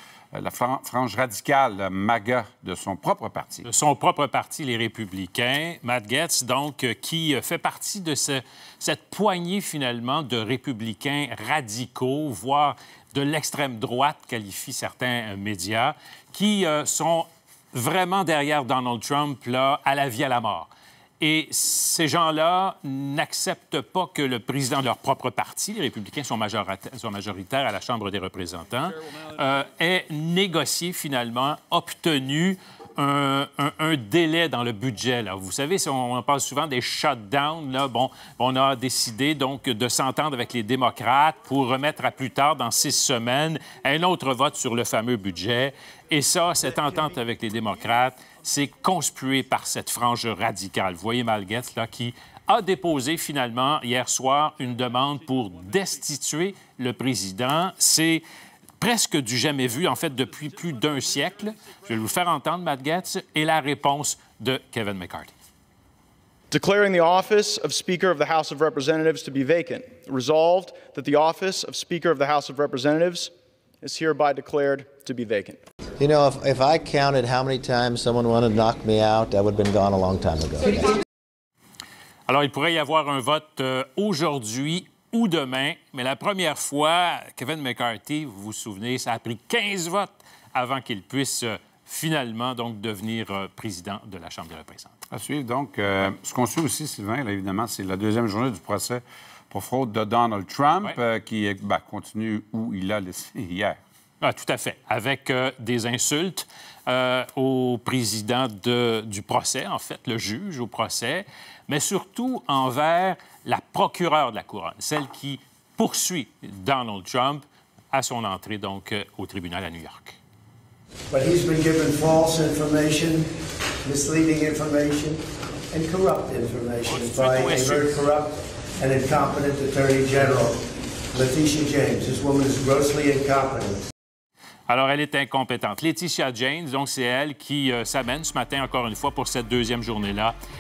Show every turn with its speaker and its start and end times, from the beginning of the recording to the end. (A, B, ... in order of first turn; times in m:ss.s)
0:00.3-0:03.7 A
0:03.6-0:58.2 B
0:58.8-1:05.3 B
1:06.5-1:13.3 C
1:13.8-1:15.6 C
1:16.0-1:20.9 D
1:22.3-1:35.0 B
1:35.1-1:43.8 A
1:44.2-2:00.2 B
2:01.1-2:13.8 E
2:06.8-2:08.0 B
2:14.7-2:20.4 B